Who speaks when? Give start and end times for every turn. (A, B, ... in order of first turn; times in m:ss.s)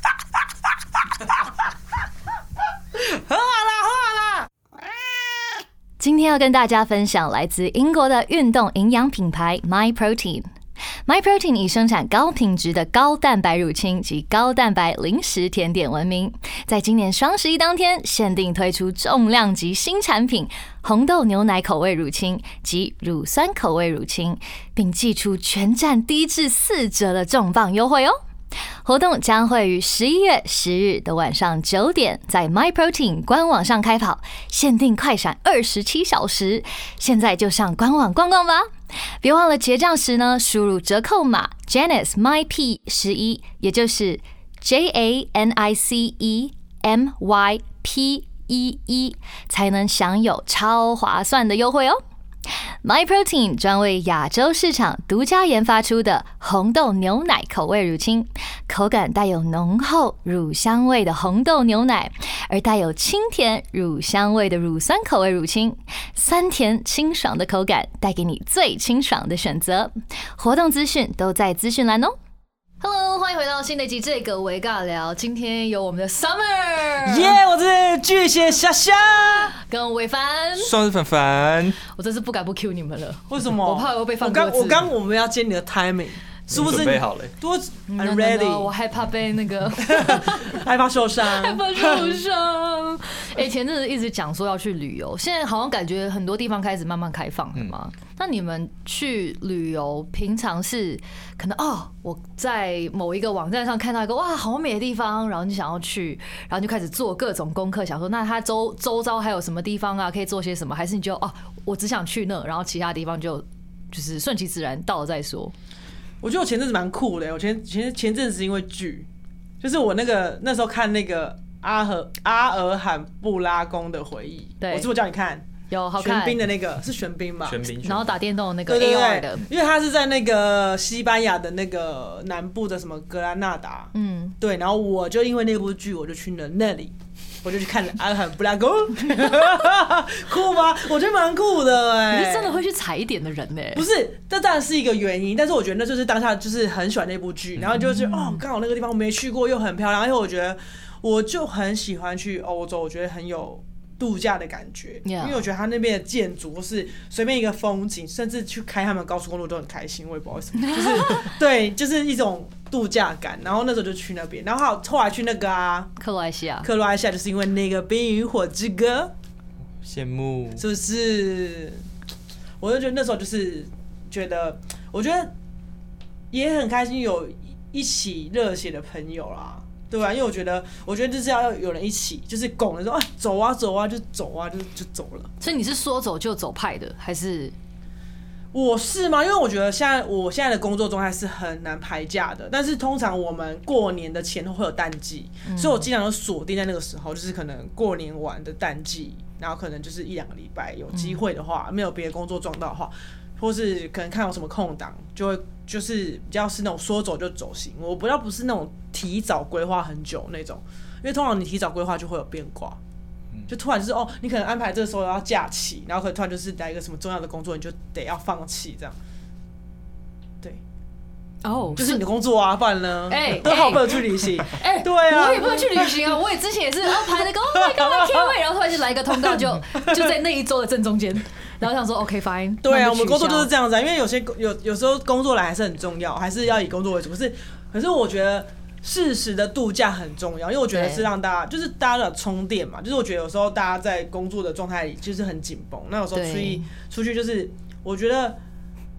0:03.0-0:04.5 A
0:06.0-0:10.5 B
0:11.0-0:28.2 B
0:28.8-0:38.7 B
0:39.2-0:52.0 B
0:52.8-1:12.1 B
1:12.8-1:17.4 B
1:17.0-1:19.5 A
1:19.6-1:20.7 B
1:20.6-1:21.8 C
1:21.9-1:24.8 B
1:23.3-1:28.7 A
1:26.5-1:27.3 C
1:27.9-1:30.6 B
1:29.8-1:32.2 A
1:31.2-1:55.5 B
1:56.2-1:59.1 A
1:59.6-2:05.5 A
2:04.6-2:04.9 B
2:05.7-2:06.4 B
2:06.0-2:07.6 A
2:07.4-2:08.2 C
2:07.8-2:09.4 B
2:08.7-2:16.9 A
2:13.9-2:14.3 B
2:17.4-2:22.6 A
2:22.1-2:23.8 B
2:23.7-2:45.9 A
2:27.7-2:28.4 B
2:35.0-2:35.4 B
2:40.6-2:41.3 B
2:46.0-2:46.7 B
2:46.6-2:49.1 A
2:49.8-2:50.6 C
2:50.6-2:51.8 A
2:52.6-2:55.3 A
2:56.3-3:05.4 A
3:05.4-3:07.5 B
3:08.5-3:32.8 A
3:15.4-3:15.9 B
3:20.9-3:21.2 B
3:33.5-3:39.0 A
3:41.4-3:42.0 B
3:41.8-3:46.2 A
3:43.1-3:53.5 B
3:47.0-3:48.3 A
3:49.2-3:50.1 A
3:52.6-4:08.4 A
4:00.7-4:01.1 B
4:06.1-4:06.7 B